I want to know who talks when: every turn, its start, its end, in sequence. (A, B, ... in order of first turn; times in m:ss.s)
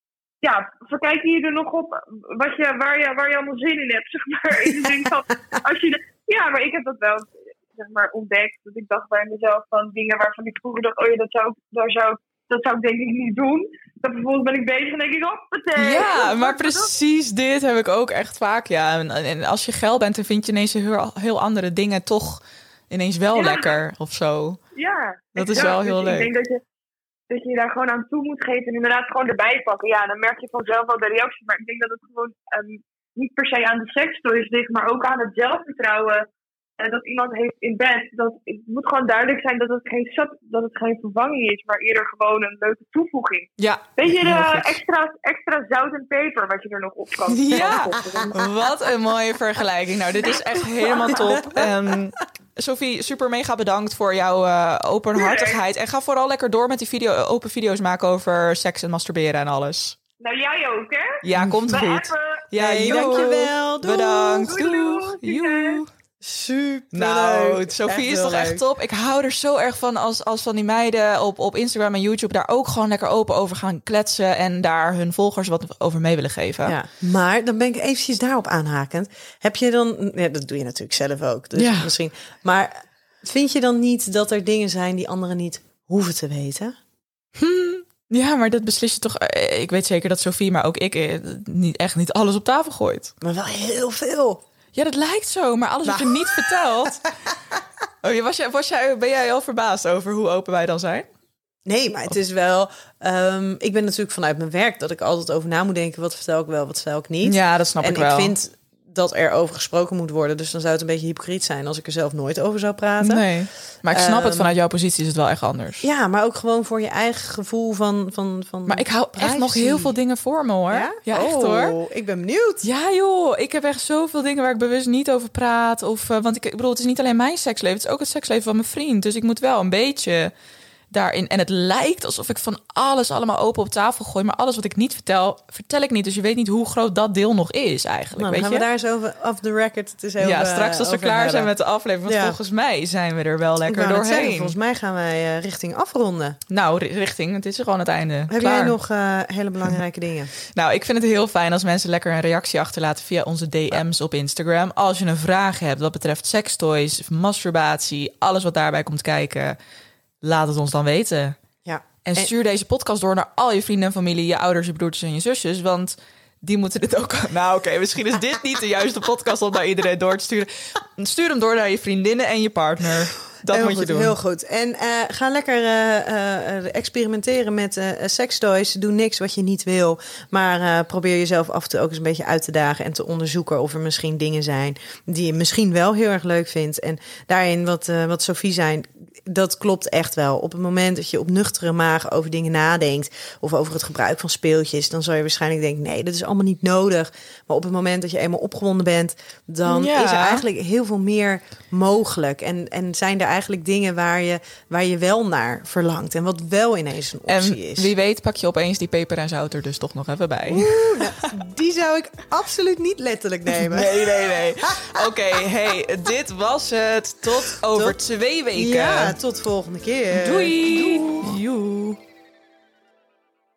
0:00.4-0:16.9 A
0:15.7-0:24.6 B
0:23.3-0:23.7 A
0:24.7-0:26.6 A
0:25.3-0:26.3 B
0:27.3-0:36.3 A
0:36.8-0:48.5 A
0:43.6-0:44.8 B
0:47.3-1:00.0 B
0:47.5-0:48.4 C
0:50.3-0:51.1 A
0:55.2-0:55.6 A
1:00.2-1:03.4 A
1:01.2-1:05.9 B
1:02.6-1:04.5 C
1:04.4-1:05.8 A
1:06.2-1:08.6 C
1:06.9-1:16.8 B
1:16.6-1:26.8 C
1:21.6-1:21.9 B
1:27.4-1:33.1 B
1:33.2-1:34.4 C
1:34.7-1:37.0 B
1:35.8-1:36.4 C
1:38.0-1:41.1 B
1:41.6-1:53.3 C
1:47.2-1:48.3 B
1:53.0-1:55.9 B
1:53.9-1:54.5 C
1:55.8-1:59.9 C
1:58.7-2:01.8 B
2:00.7-2:02.7 C
2:02.6-2:10.3 B
2:10.9-2:18.6 B
2:18.2-2:21.5 C
2:20.2-2:24.6 B
2:22.0-2:22.4 C
2:23.6-2:26.4 C
2:26.5-2:28.8 B
2:28.3-2:30.3 C
2:30.5-2:39.6 B
2:40.2-2:41.4 B
2:41.6-2:42.3 C
2:42.0-2:54.2 B
2:53.5-3:27.9 C
3:19.6-3:20.4 B
3:27.3-3:31.3 B
3:30.5-3:33.9 C
3:33.5-3:39.2 B
3:37.6-3:38.0 C
3:38.5-3:41.4 C
3:40.1-3:42.0 B